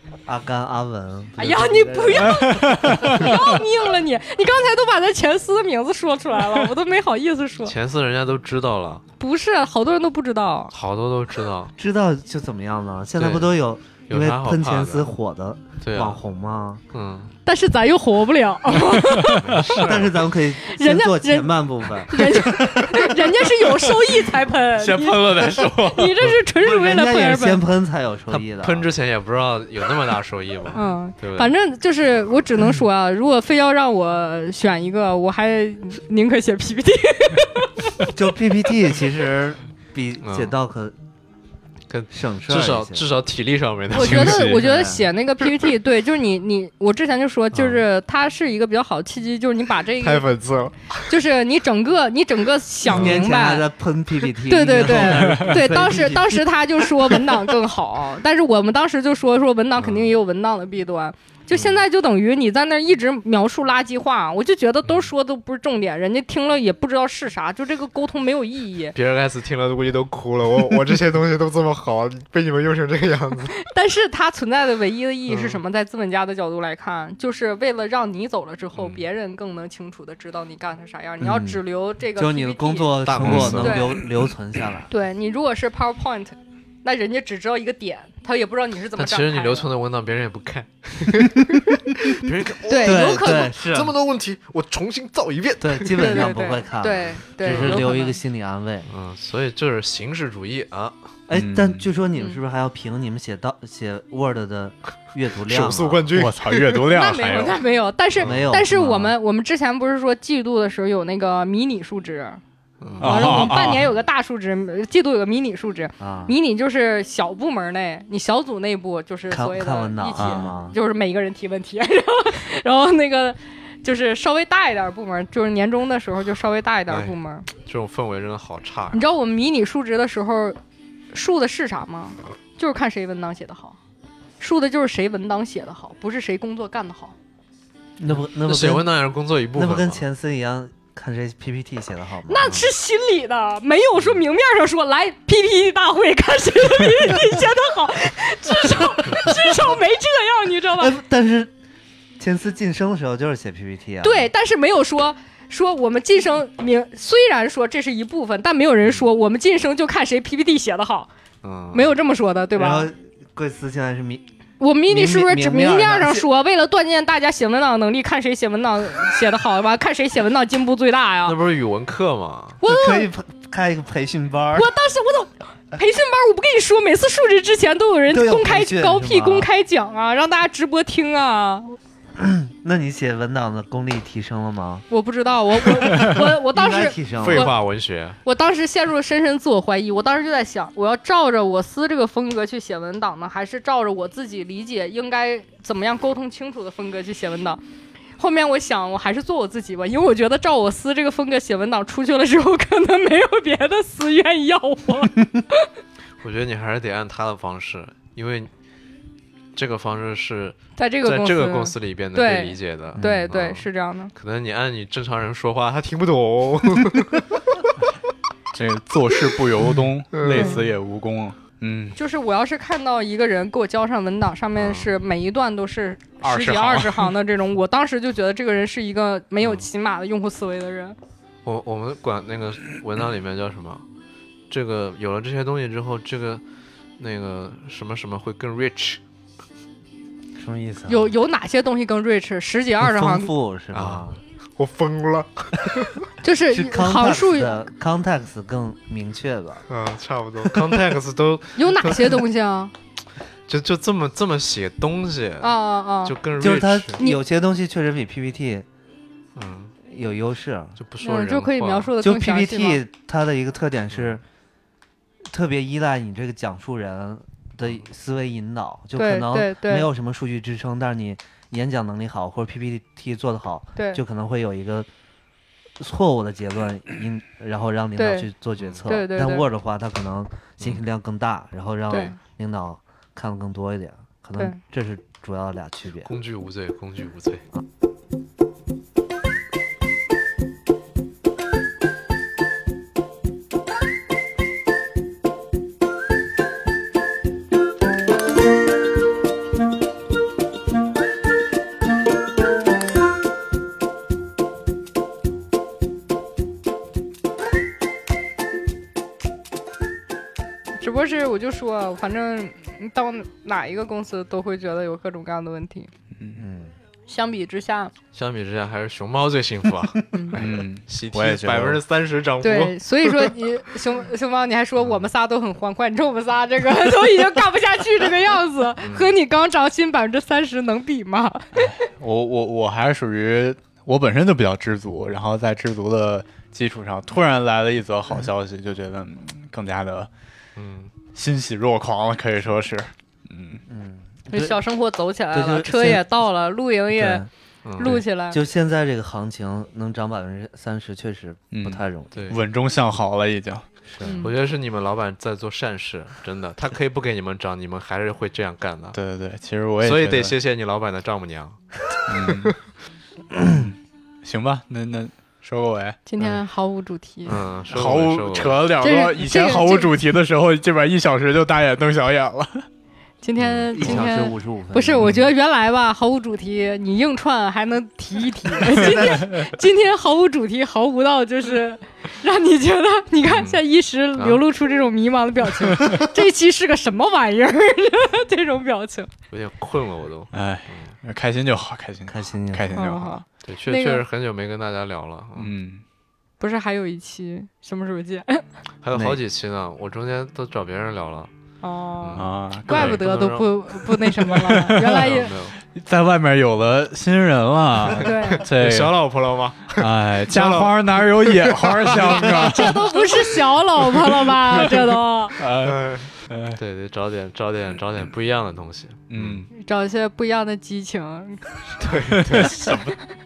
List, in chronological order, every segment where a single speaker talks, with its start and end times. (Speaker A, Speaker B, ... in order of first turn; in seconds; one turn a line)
Speaker A: 0.3-3.3
Speaker B: 1.4-7.8
Speaker C: 2.2-3.5
Speaker D: 7.7-9.0
Speaker B: 9.2-10.7
Speaker D: 10.7-11.7
Speaker A: 11.8-16.8
Speaker D: 13.2-15.1
Speaker D: 15.8-16.2
Speaker D: 16.9-17.3
Speaker B: 17.5-19.8
Speaker D: 19.1-20.2
Speaker C: 19.2-19.6
Speaker A: 19.6-23.4
Speaker B: 20.6-21.6
Speaker B: 22.1-27.6
Speaker C: 24.7-26.4
Speaker A: 26.6-28.9
Speaker D: 28.3-31.5
Speaker B: 30.7-37.9
Speaker A: 38.1-41.0
Speaker D: 40.2-40.5
Speaker D: 41.9-44.5
Speaker A: 42.1-43.1
Speaker B: 43.9-50.3
Speaker C: 44.0-44.6
Speaker A: 44.5-45.1
Speaker D: 47.5-47.8
Speaker D: 50.0-51.0
Speaker B: 51.1-53.7
Speaker A: 52.9-57.4
Speaker D: 52.9-53.2
Speaker B: 54.5-69.0
Speaker C: 55.0-55.6
Speaker D: 59.8-60.1
Speaker D: 61.5-61.8
Speaker D: 64.8-65.1
Speaker D: 69.0-73.5
Speaker B: 73.6-84.0
Speaker D: 75.3-75.6
Speaker D: 78.8-79.0
Speaker A: 81.2-81.6
Speaker A: 82.2-84.9
Speaker D: 83.0-84.0
Speaker B: 84.9-89.7
Speaker D: 89.0-91.5
Speaker D: 92.0-96.3
Speaker B: 92.7-93.5
Speaker A: 92.8-93.9
Speaker A: 95.6-98.9
Speaker B: 96.0-98.2
Speaker D: 97.5-97.9
Speaker D: 98.9-101.0
Speaker A: 101.3-106.1
Speaker C: 101.3-101.9
Speaker D: 105.5-106.8
Speaker C: 106.2-107.6
Speaker B: 106.9-112.4
Speaker D: 108.2-108.5
Speaker A: 108.2-109.2
Speaker D: 112.8-113.7
Speaker C: 113.0-113.8
Speaker B: 113.0-127.5
Speaker A: 116.0-116.3
Speaker A: 119.3-120.8
Speaker D: 126.9-129.0
Speaker B: 128.9-130.6
Speaker B: 131.1-133.8
Speaker B: 134.4-137.2
Speaker A: 138.0-138.9
Speaker D: 138.4-140.0
Speaker A: 139.5-142.6
Speaker B: 142.3-151.0
Speaker A: 150.8-151.5
Speaker A: 152.2-154.3
Speaker B: 154.0-161.1
Speaker D: 161.4-161.9
Speaker B: 161.7-162.9
Speaker A: 162.6-164.3
Speaker B: 164.6-171.4
Speaker A: 164.9-166.3
Speaker D: 171.3-172.6
Speaker B: 172.6-173.1
Speaker A: 172.6-174.7
Speaker B: 174.5-181.8
Speaker A: 178.1-179.5
Speaker A: 182.2-184.9
Speaker B: 184.9-187.5
Speaker A: 186.0-187.5
Speaker D: 187.2-188.2
Speaker B: 188.2-197.6
Speaker B: 198.2-205.7
Speaker D: 206.2-208.5
Speaker D: 209.5-217.4
Speaker B: 210.8-214.1
Speaker A: 213.0-213.3
Speaker C: 218.5-222.0
Speaker D: 220.1-220.6
Speaker B: 220.3-220.7
Speaker B: 221.9-231.0
Speaker D: 224.6-224.9
Speaker C: 226.2-227.1
Speaker D: 231.4-233.8
Speaker D: 234.5-236.4
Speaker D: 237.0-239.0
Speaker A: 240.4-241.1
Speaker B: 240.9-243.3
Speaker A: 242.8-244.2
Speaker D: 243.7-244.1
Speaker D: 244.6-246.1
Speaker B: 246.2-247.6
Speaker A: 246.5-249.7
Speaker D: 249.7-252.2
Speaker B: 251.6-252.7
Speaker D: 253.5-257.0
Speaker B: 255.4-256.2
Speaker A: 256.4-258.7
Speaker D: 259.4-259.7
Speaker A: 259.8-260.8
Speaker D: 260.8-261.9
Speaker B: 261.0-262.8
Speaker A: 262.0-264.2
Speaker A: 265.3-274.9
Speaker B: 269.0-269.9
Speaker B: 273.8-274.0
Speaker A: 275.8-286.1
Speaker B: 278.0-278.3
Speaker D: 278.6-278.9
Speaker B: 278.9-279.5
Speaker B: 281.9-282.2
Speaker D: 286.0-287.4
Speaker B: 310.8-315.9
Speaker C: 316.2-316.4
Speaker A: 316.4-316.7
Speaker B: 317.1-317.9
Speaker D: 318.1-323.2
Speaker B: 320.1-320.4
Speaker C: 320.3-321.8
Speaker B: 322.4-331.5
Speaker D: 324.8-325.1
Speaker D: 328.8-329.1
Speaker C: 331.6-340.1
Speaker D: 340.6-340.9
Speaker C: 341.1-343.6
Speaker A: 343.7-344.6
Speaker B: 344.3-348.4
Speaker A: 345.3-346.0
Speaker A: 346.9-347.3
Speaker D: 347.6-348.0
Speaker A: 347.8-352.3
Speaker C: 351.5-353.7
Speaker D: 352.1-352.4
Speaker A: 353.9-354.2
Speaker B: 354.0-354.3
Speaker D: 354.2-359.0
Speaker C: 358.9-360.4
Speaker D: 359.8-361.6
Speaker C: 362.1-362.6
Speaker D: 362.2-362.5
Speaker A: 363.4-363.6
Speaker C: 363.4-366.0
Speaker B: 366.1-367.4
Speaker D: 367.2-368.7
Speaker C: 367.7-372.7
Speaker B: 368.8-369.9
Speaker B: 373.2-389.1
Speaker D: 373.4-374.1
Speaker A: 373.7-375.1
Speaker A: 378.7-379.3
Speaker D: 383.3-383.6
Speaker D: 384.2-384.4
Speaker D: 389.3-391.0
Speaker C: 390.3-393.1
Speaker A: 392.1-392.8
Speaker B: 392.7-394.0
Speaker D: 393.4-395.5
Speaker C: 395.4-395.8
Speaker B: 396.4-398.4
Speaker D: 398.8-401.3
Speaker A: 398.9-399.2
Speaker B: 401.6-405.4
Speaker D: 402.0-403.5
Speaker C: 402.2-403.1
Speaker C: 404.0-405.1
Speaker D: 404.8-405.6
Speaker C: 405.7-408.9
Speaker D: 407.9-412.7
Speaker B: 408.0-408.4
Speaker C: 409.8-413.0
Speaker B: 412.3-415.4
Speaker C: 414.2-416.6
Speaker D: 415.6-419.4
Speaker C: 419.1-419.5
Speaker B: 419.5-421.9
Speaker D: 421.8-422.8
Speaker C: 422.1-423.0